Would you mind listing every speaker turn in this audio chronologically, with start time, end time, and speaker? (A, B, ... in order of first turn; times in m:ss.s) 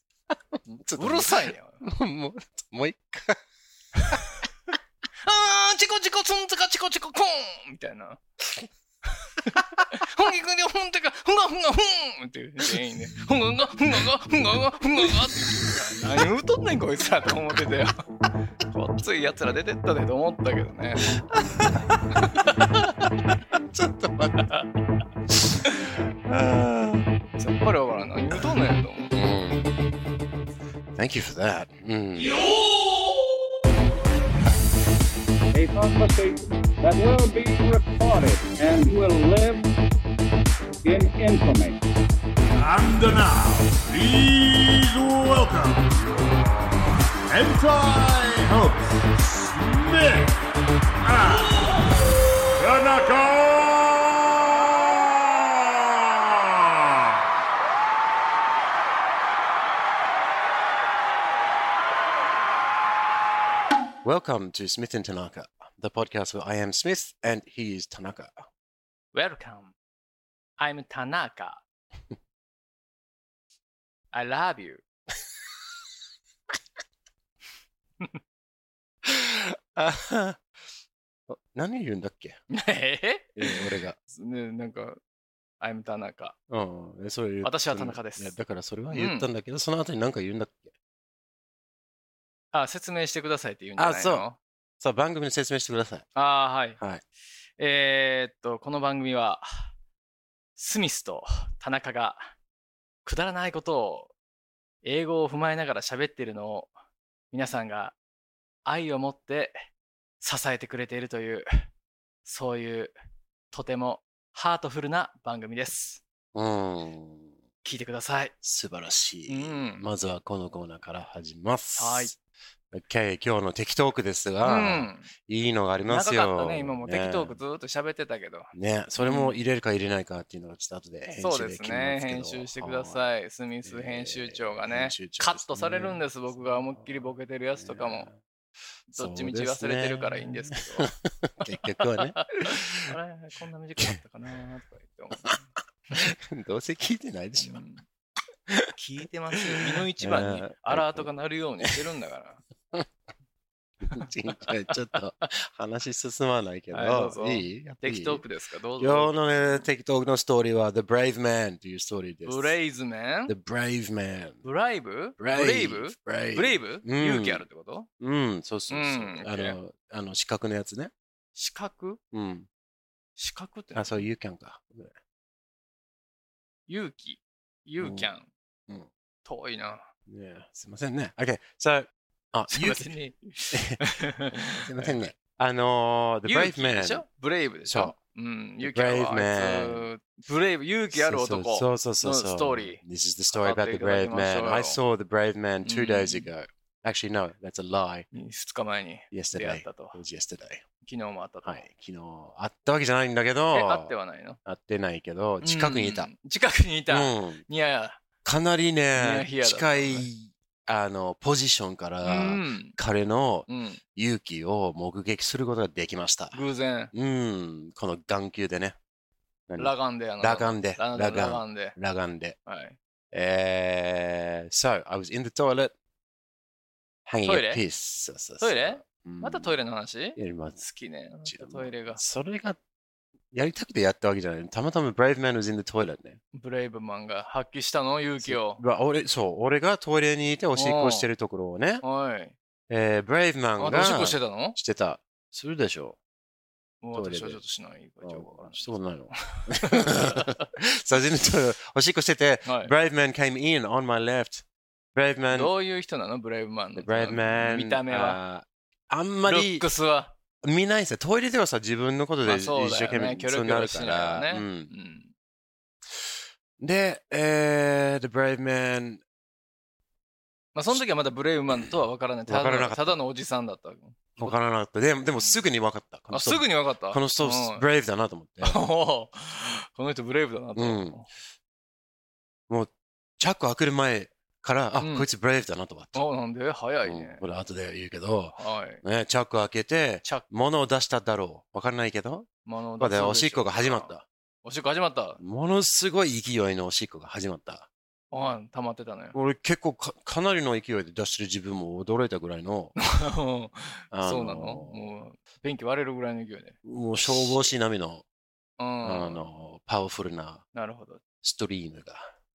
0:00.3-0:03.4 A
0:00.6-0:01.8 B
0:04.0-0:04.4 B
0:05.2-0:08.2 B
0:09.5-0:17.9 B
0:18.7-0:21.1 B
0:21.3-0:22.5 A
0:22.4-0:22.9 B
0:23.5-0:24.5 A
0:24.4-0:24.7 B
0:26.3-0:27.1 A
0:27.4-0:29.1 B
0:29.1-0:29.7 A
0:31.0-0:32.4 A
0:35.5-0:39.7 C
0:40.8-0:41.8 C
0:42.6-0:46.4 D
0:47.3-0:48.8 D
0:49.4-0:50.4 D
0:51.0-0:51.7 D
0:52.5-0:54.9 D
0:56.1-0:56.5 D
1:04.0-1:08.5 A
1:09.1-1:09.8 B
1:10.6-1:11.6 B
1:14.1-1:14.8 B
1:19.0-1:20.4 A
1:21.3-1:22.4 A
1:22.5-1:25.0 B
1:23.4-1:24.0 A
1:25.6-1:26.4 B
1:26.5-1:30.7 A
1:27.4-1:28.4 B
1:28.9-1:29.3 B
1:32.5-1:34.4 B
1:33.8-1:34.2 A
1:34.8-1:36.1 A
1:36.2-1:36.8 B
1:37.6-1:39.7 B
1:40.6-1:42.2 B
1:43.0-1:44.1 B
1:44.8-1:46.7 B
1:47.3-1:48.0 B
1:48.7-1:49.6 B
1:50.2-1:51.5 B
1:52.2-1:52.9 B
1:53.5-1:56.0 B
1:56.3-1:57.3 A
1:57.6-1:58.3 B
1:58.4-2:02.2 A
1:59.3-1:59.9 B
2:01.8-2:02.1 B
2:02.7-2:07.4 A
2:04.4-2:05.1 B
2:05.9-2:09.4 B
2:08.5-2:13.0 A
2:11.2-2:18.1 B
2:13.6-2:18.2 A
2:18.9-2:22.9 A
2:18.9-2:26.1 B
2:26.0-2:27.6 A
2:27.4-2:27.8 B
2:28.5-2:28.7 A
2:28.8-2:32.4 B
2:29.6-2:31.1 A
2:33.9-2:38.2 A
2:36.7-2:39.7 B
2:38.8-2:42.6 A
2:42.3-2:43.3 B
2:43.3-2:44.4 A
2:44.4-2:47.9 B
2:45.2-2:47.4 A
2:48.0-2:50.9 A
2:48.7-2:49.6 B
2:51.4-2:52.0 B
2:52.1-2:52.5 A
2:53.2-2:54.1 B
2:53.8-2:55.0 A
2:56.7-2:58.3 B
2:57.8-2:58.1 A
2:59.2-2:59.9 B
3:00.1-3:02.9 A
3:02.5-3:05.1 B
3:03.5-3:07.0 A
3:06.3-3:12.8 B
3:07.7-3:08.0 A
3:08.6-3:09.9 A
3:10.9-3:18.1 A
3:13.3-3:14.8 B
3:15.6-3:16.3 B
3:18.1-3:20.0 B
3:19.1-3:20.6 A
3:20.8-3:21.6 B
3:21.4-3:23.9 A
3:23.5-3:24.4 B
3:24.5-3:26.1 A
3:25.4-3:28.0 B
3:26.9-3:27.4 A
3:28.2-3:38.8 A
3:28.9-3:30.1 B
3:32.0-3:32.8 B
3:33.5-3:33.8 B
3:36.3-3:36.9 B
3:39.5-3:42.4 A
3:39.6-3:41.8 B
3:42.5-3:42.8 B
3:43.1-3:45.7 A
3:47.1-3:49.5 A
3:47.2-3:47.6 B
3:48.4-3:52.0 B
3:50.2-3:50.6 A
3:51.2-3:52.6 A
3:53.3-3:56.2 A
3:56.3-3:58.6 B
3:58.2-4:01.8 A
4:00.6-4:01.1 B
4:01.8-4:02.4 B
4:02.7-4:06.0 A
4:03.6-4:04.6 B
4:06.8-4:10.4 B
4:06.9-4:07.4 A
4:08.0-4:15.5 A
4:12.5-4:12.7 B
4:15.3-4:18.2 B
4:16.8-4:19.7 A
4:19.3-4:20.1 B
4:20.4-4:24.7 A
4:22.2-4:25.1 B
4:26.0-4:29.0 A
4:30.6-4:34.4 B
4:32.3-4:33.0 A
4:34.2-4:38.6 A
4:35.1-4:35.4 B
4:36.1-4:37.6 B
4:38.4-4:41.1 B
4:40.6-4:41.0 A
4:42.5-4:46.0 A
4:44.8-4:45.1 B
4:45.9-4:47.2 B
4:46.8-4:52.3 A
4:48.4-4:48.8 B
4:52.4-4:53.9 B
4:52.8-4:54.0 A
4:54.4-4:55.2 B
4:55.2-4:57.7 A
4:58.1-4:59.2 B
4:59.1-5:02.8 A
5:02.8-5:07.5 B
5:03.9-5:04.8 A
5:06.6-5:08.0 A
5:08.6-5:09.2 B
5:08.8-5:10.4 A
5:10.5-5:11.0 B
5:11.2-5:12.1 A